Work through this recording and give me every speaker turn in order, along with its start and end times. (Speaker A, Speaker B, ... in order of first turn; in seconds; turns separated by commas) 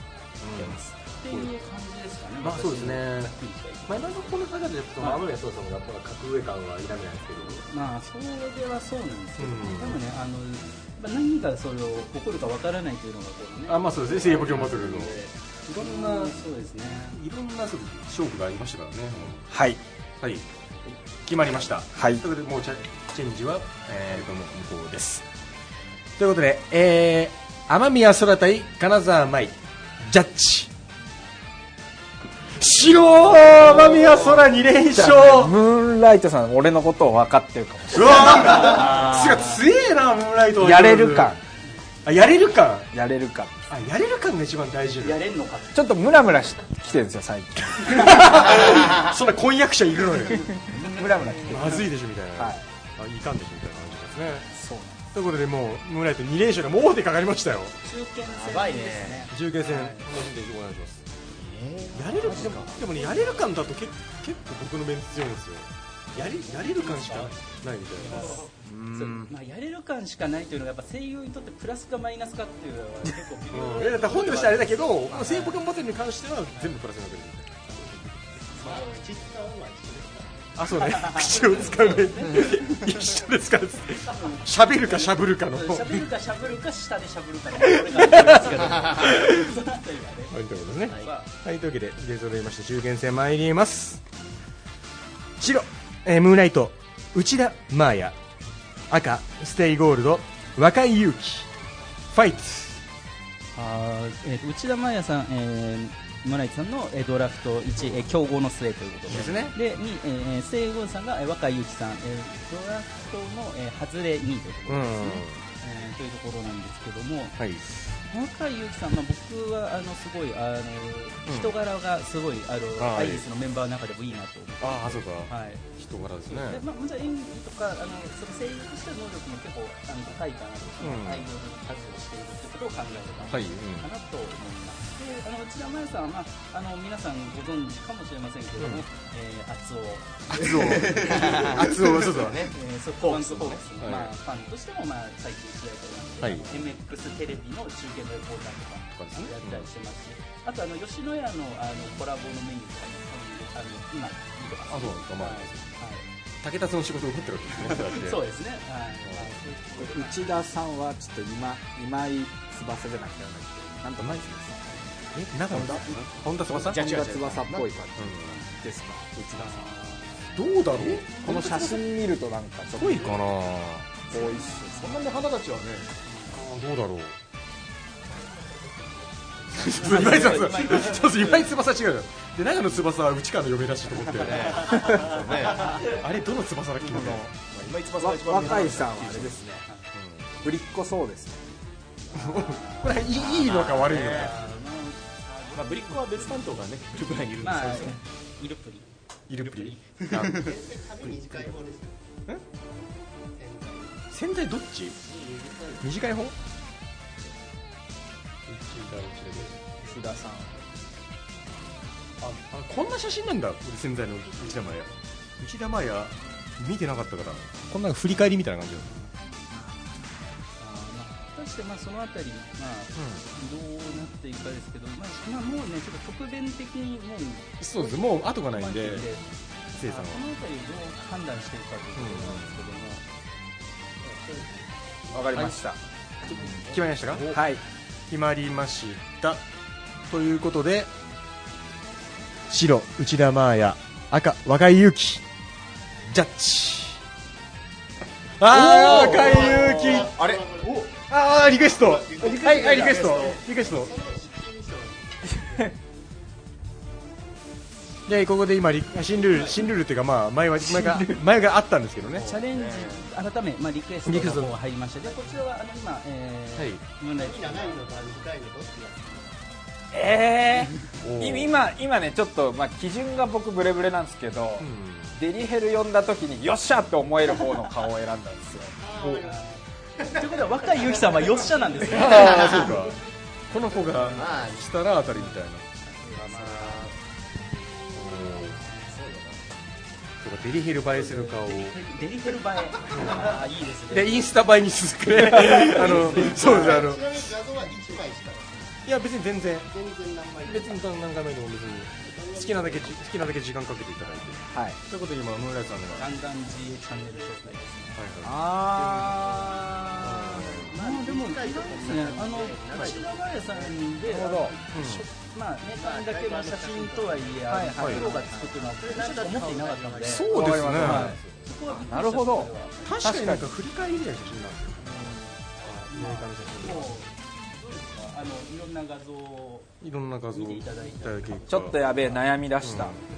Speaker A: 0.4-1.5, Speaker B: 0.5-4.4, Speaker A: 2.4-3.3, Speaker A: 3.9-7.6, Speaker B: 7.4-17.2, Speaker A: 9.4-10.0, Speaker A: 13.7-16.3, Speaker A: 17.1-19.4, Speaker C: 19.5-19.8, Speaker A: 20.2-20.4, Speaker A: 21.2-25.2, Speaker C: 21.9-22.2, Speaker A: 26.2-30.7, Speaker A: 32.6-35.5, Speaker C: 33.5-34.2, Speaker C: 34.9-38.4, Speaker A: 37.9-41.3, Speaker C: 40.6-41.4, Speaker A: 42.0-42.9, Speaker C: 42.9-43.7, Speaker A: 43.7-45.2, Speaker B: 45.0-45.9, Speaker C: 45.7-48.3, Speaker A: 47.8-50.5, Speaker B: 50.4-51.8, Speaker C: 50.5-52.6, Speaker A: 51.4-54.5, Speaker C: 54.5-55.0, Speaker A: 55.1-57.8, Speaker B: 57.8-60.1, Speaker D: 58.3-59.3, Speaker A: 59.3-61.0, Speaker D: 61.3-62.8, Speaker B: 61.9-63.5, Speaker A: 61.9-69.3, Speaker B: 66.2-75.6, Speaker A: 73.5-78.0, Speaker E: 78.5-80.5, Speaker B: 78.5-79.1, Speaker A: 80.5-86.1, Speaker B: 80.8-82.9, Speaker B: 84.1-91.3, Speaker A: 87.6-89.5, Speaker A: 90.3-94.0, Speaker A: 95.4-98.2, Speaker A: 98.9-101.5, Speaker A: 102.1-102.8, Speaker B: 103.5-117.4, Speaker A: 109.1-109.5, Speaker A: 114.7-115.4, Speaker A: 117.4-117.6, Speaker B: 118.1-125.7, Speaker A: 121.3-121.5, Speaker A: 122.8-123.2, Speaker A: 124.6-126.6, Speaker B: 126.3-141.5, Speaker A: 130.8-131.2, Speaker A: 133.3-133.9, Speaker A: 140.3-142.5, Speaker D: 140.6-143.6, Speaker B: 142.5-156.1, Speaker A: 143.8-144.1, Speaker A: 146.2-146.5, Speaker A: 148.9-149.7, Speaker A: 154.7-155.8, Speaker A: 156.4-158.2, Speaker B: 157.6-160.4, Speaker C: 159.8-164.8, Speaker A: 164.0-164.2, Speaker A: 165.1-166.9, Speaker C: 165.5-169.4, Speaker D: 165.5-167.7, Speaker A: 168.0-168.4, Speaker B: 168.3-168.6, Speaker D: 169.1-169.6, Speaker B: 169.3-170.6, Speaker A: 170.3-171.8, Speaker D: 170.8-171.0, Speaker C: 171.0-173.2, Speaker A: 172.8-174.0, Speaker C: 174.1-174.6, Speaker B: 174.1-175.2, Speaker D: 174.5-175.9, Speaker B: 176.0-176.4, Speaker A: 176.3-177.1, Speaker A: 179.5-187.3, Speaker B: 179.6-181.5, Speaker D: 184.2-185.9, Speaker B: 184.7-184.9, Speaker D: 186.8-189.4, Speaker C: 188.0-189.7, Speaker B: 189.7-189.9, Speaker A: 189.9-190.2, Speaker C: 190.4-191.4, Speaker B: 192.1-196.5, Speaker A: 192.1-194.3, Speaker D: 193.9-194.3, Speaker D: 195.5-198.0, Speaker B: 197.4-200.3, Speaker A: 199.3-201.5, Speaker E: 200.1-202.0, Speaker E: 203.3-204.0, Speaker A: 204.1-205.0, Speaker E: 205.2-205.8, Speaker A: 205.8-206.3, Speaker A: 208.5-209.7, Speaker C: 209.8-210.5, Speaker A: 212.2-218.9, Speaker B: 218.9-219.9, Speaker B: 220.6-229.2, Speaker A: 222.9-223.2, Speaker A: 227.6-229.1, Speaker A: 229.7-230.3, Speaker B: 229.8-233.0, Speaker A: 231.9-232.6, Speaker C: 235.1-236.6, Speaker A: 235.3-235.6, Speaker A: 236.3-237.4, Speaker C: 237.2-237.6, Speaker A: 238.1-239.4, Speaker A: 240.1-240.9, Speaker A: 242.5-245.2, Speaker A: 246.1-247.0, Speaker A: 248.4-253.9, Speaker D: 248.5-250.7, Speaker C: 248.7-249.3, Speaker E: 248.7-255.7, Speaker D: 252.4-253.3, Speaker A: 258.1-262.3, Speaker E: 259.1-259.7, Speaker C: 260.7-261.2, Speaker D: 262.1-263.1, Speaker B: 262.1-268.3, Speaker A: 264.1-264.5, Speaker A: 266.6-266.8, Speaker E: 267.1-269.4, Speaker C: 269.9-278.7, Speaker A: 271.0-271.5, Speaker A: 274.6-275.2, Speaker E: 278.8-282.9, Speaker B: 279.1-282.6, Speaker A: 281.8-283.0, Speaker A: 283.5-285.6, Speaker E: 283.7-284.4, Speaker B: 283.9-284.2, Speaker D: 284.1-284.6, Speaker B: 285.1-286.9, Speaker D: 286.4-286.7, Speaker E: 286.5-286.9, Speaker E: 287.7-288.2, Speaker A: 287.9-288.6, Speaker B: 288.3-289.0, Speaker D: 288.9-289.4, Speaker A: 290.2-291.8, Speaker B: 290.9-294.2, Speaker A: 292.9-293.3, Speaker A: 293.9-297.3, Speaker B: 295.4-296.8, Speaker E: 295.6-298.9, Speaker A: 298.8-299.7, Speaker E: 299.6-300.9, Speaker A: 300.4-306.1, Speaker E: 302.0-303.1, Speaker E: 304.0-304.4, Speaker C: 304.5-304.8, Speaker B: 306.0-308.0, Speaker E: 306.9-307.9, Speaker A: 307.9-308.4, Speaker C: 308.2-310.2, Speaker E: 308.6-313.9, Speaker B: 309.4-323.0, Speaker A: 310.0-310.8, Speaker C: 314.0-314.6, Speaker A: 314.7-315.1, Speaker E: 315.7-317.6, Speaker C: 317.5-318.5, Speaker A: 317.8-318.0, Speaker E: 318.7-320.6, Speaker C: 320.1-323.5, Speaker A: 320.1-321.1, Speaker A: 322.8-325.1, Speaker B: 325.5-329.7, Speaker A: 325.7-326.9, Speaker A: 329.8-331.8, Speaker B: 330.3-332.2, Speaker C: 331.5-333.0, Speaker A: 332.6-333.0